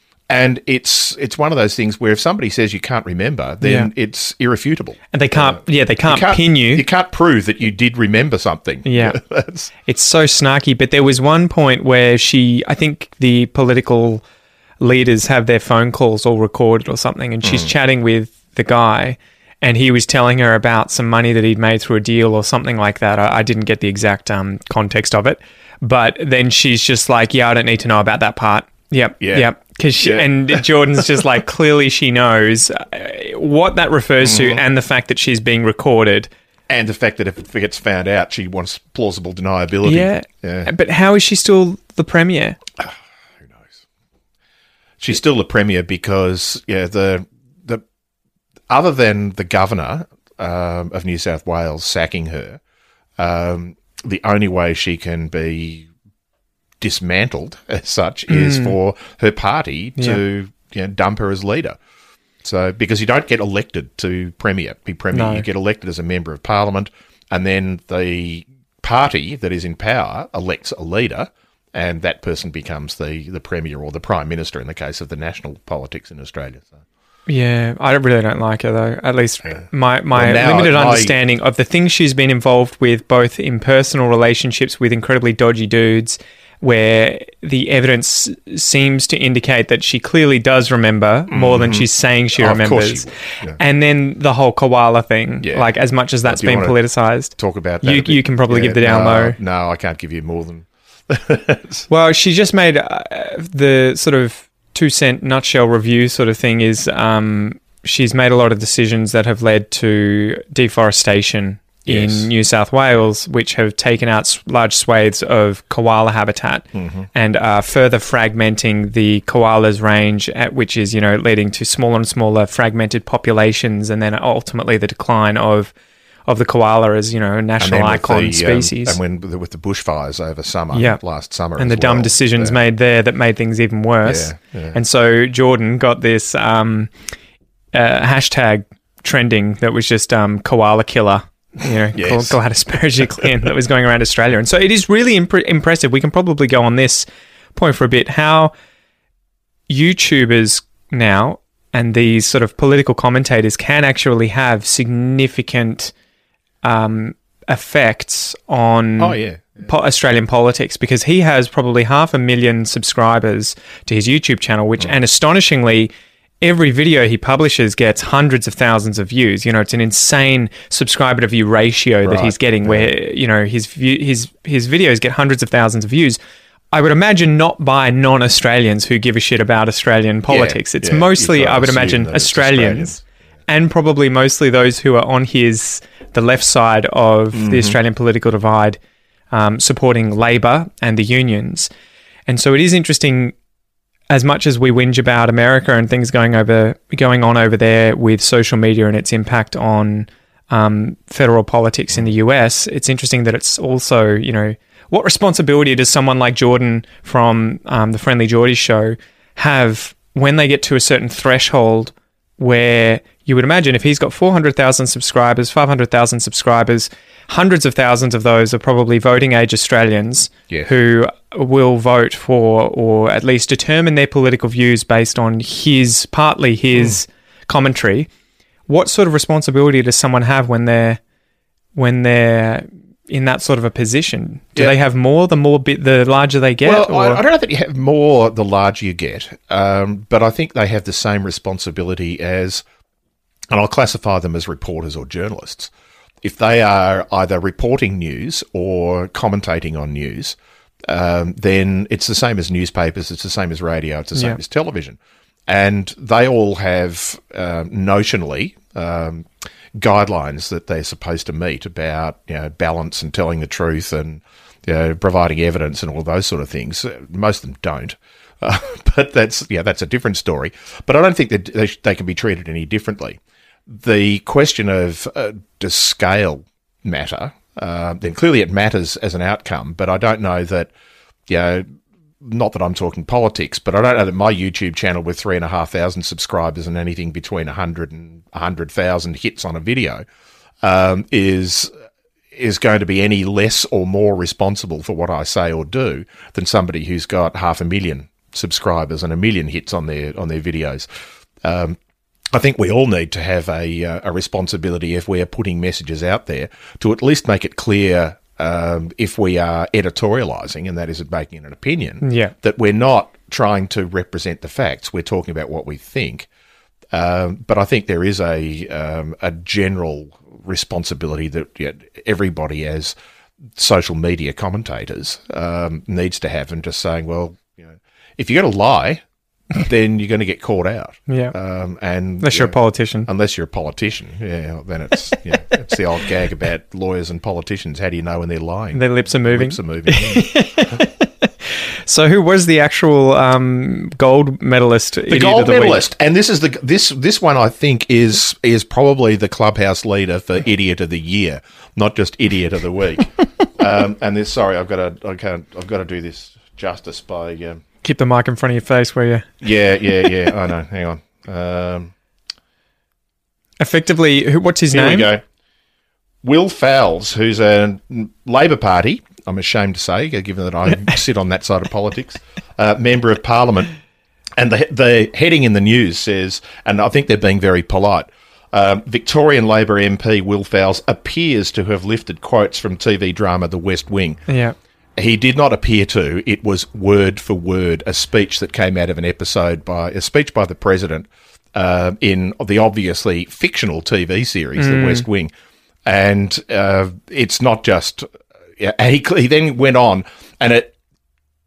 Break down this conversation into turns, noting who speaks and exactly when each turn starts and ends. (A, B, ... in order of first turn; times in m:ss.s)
0:00.3-0:09.7 A
0:03.6-0:03.9 B
0:05.1-0:06.9 B
0:08.8-0:09.2 B
0:09.9-0:14.2 B
0:14.8-0:36.3 B
0:17.4-0:17.7 A
0:29.2-0:29.5 A
0:30.0-0:31.2 A
0:34.2-0:34.6 A
0:36.7-0:40.7 A
0:39.8-0:42.6 B
0:42.8-0:43.8 A
0:45.0-0:47.8 A
0:48.7-0:52.6 A
0:53.2-0:55.9 A
0:56.8-1:01.8 A
0:58.3-0:58.8 B
1:02.4-1:16.8 A
1:05.1-1:05.4 B
1:17.3-1:39.4 B
1:20.1-1:21.2 A
1:31.3-1:33.6 A
1:35.4-1:35.7 A
1:36.2-1:36.8 A
1:37.4-1:41.9 A
1:41.9-2:05.7 B
1:51.8-1:52.3 A
1:56.7-1:57.1 A
2:06.3-2:09.0 B
2:07.6-2:12.6 A
2:10.7-2:11.0 B
2:11.6-2:16.9 B
2:14.0-2:14.8 A
2:17.7-2:28.5 B
2:21.9-2:22.4 A
2:29.7-2:35.9 B
2:36.6-2:45.9 B
2:39.0-2:39.6 A
2:46.4-2:56.2 B
2:52.0-2:52.9 A
2:56.7-3:03.0 B
3:00.3-3:03.0 A
3:03.5-3:08.8 B
3:07.3-3:07.8 A
3:09.3-3:11.7 B
3:12.3-3:13.3 B
3:14.1-3:48.1 B
3:46.7-3:47.0 A
3:48.7-3:51.0 B
3:51.7-3:57.2 B
3:56.6-4:02.6 A
4:03.5-4:05.7 A
4:06.2-4:33.2 A
4:33.7-4:40.7 A
4:41.3-4:41.6 A
4:42.2-4:50.0 A
4:50.6-4:51.7 A
4:52.3-5:00.9 A
5:01.4-5:01.8 A
5:02.3-5:16.3 A
5:12.0-5:12.3 B
5:16.9-5:22.9 A
5:23.6-5:29.0 A
5:29.6-5:32.6 A
5:31.1-5:31.3 B
5:32.2-5:33.1 B
5:33.1-5:40.3 A
5:38.7-5:45.8 B
5:45.1-5:57.6 A
5:57.8-5:59.3 B
5:59.4-6:01.9 A
6:03.6-6:05.1 B
6:04.7-6:05.2 A
6:06.2-6:13.7 A
6:14.4-6:24.2 A
6:24.3-6:24.6 B
6:25.0-6:35.3 A
6:34.6-6:35.0 B
6:35.8-6:38.1 A
6:38.6-6:40.7 A